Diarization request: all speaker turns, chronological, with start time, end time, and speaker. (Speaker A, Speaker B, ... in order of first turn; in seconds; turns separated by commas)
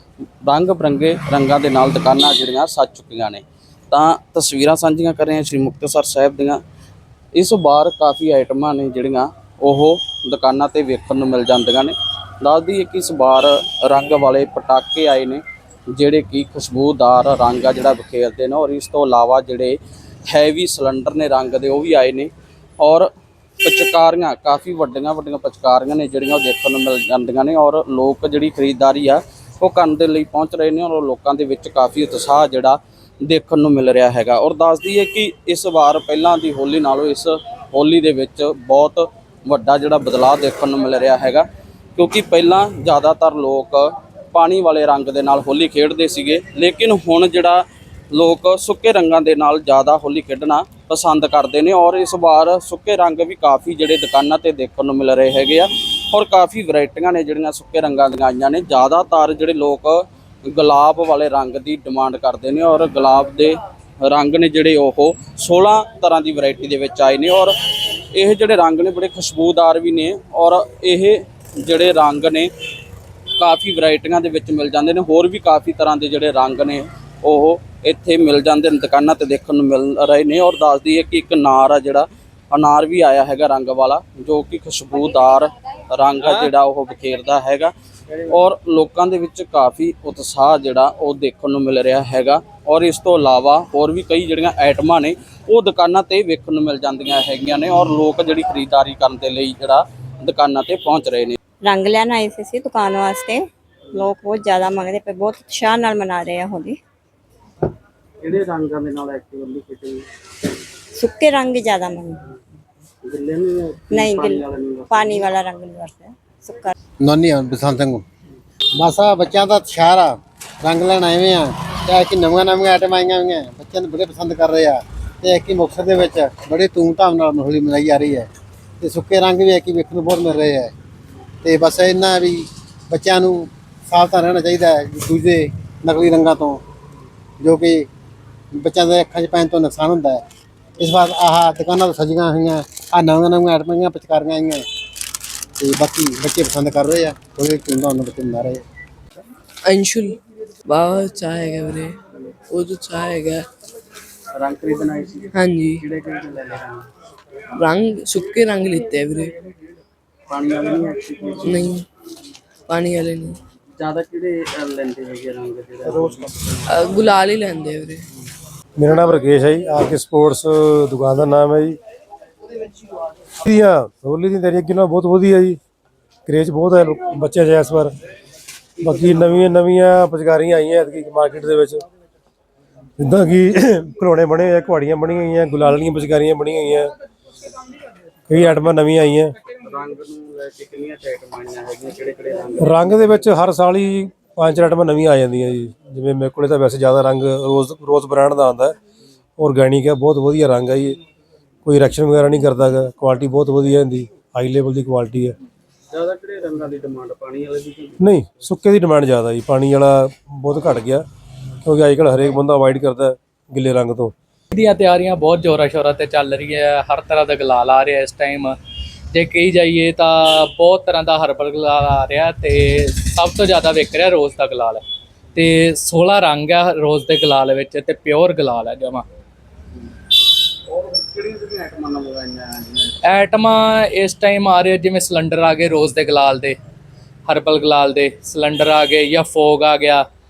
Speaker A: 0.4-6.6, Speaker A: 7.3-23.1, Speaker A: 23.6-67.5, Speaker A: 68.1-72.5, Speaker A: 73.4-87.7, Speaker A: 88.3-101.4, Speaker B: 101.6-106.8, Speaker A: 108.2-110.0, Speaker B: 110.9-112.2, Speaker A: 113.0-115.3, Speaker B: 113.9-114.4, Speaker B: 114.9-116.7, Speaker C: 117.0-118.0, Speaker C: 118.8-128.3, Speaker C: 128.8-130.7, Speaker C: 131.4-136.6, Speaker C: 137.4-137.9, Speaker C: 138.5-140.2, Speaker C: 140.8-144.6, Speaker C: 145.6-148.6, Speaker D: 149.6-151.9, Speaker D: 152.5-153.4, Speaker A: 154.3-156.8, Speaker D: 155.3-155.8, Speaker D: 157.6-159.3, Speaker A: 160.3-161.6, Speaker D: 161.4-161.8, Speaker D: 162.7-163.4, Speaker A: 163.8-166.6, Speaker D: 166.7-168.0, Speaker E: 168.8-171.8, Speaker E: 173.4-175.6, Speaker E: 176.2-177.9, Speaker E: 178.8-181.8, Speaker E: 183.0-186.9, Speaker E: 188.3-189.3, Speaker A: 189.6-192.9, Speaker E: 192.6-198.7, Speaker E: 199.4-201.0, Speaker E: 201.6-205.3, Speaker A: 205.9-208.0, Speaker E: 208.0-211.0, Speaker E: 211.6-214.1, Speaker F: 214.5-218.6, Speaker F: 219.1-224.8, Speaker F: 225.3-229.0, Speaker A: 230.7-233.0, Speaker F: 233.1-236.6, Speaker F: 237.3-240.0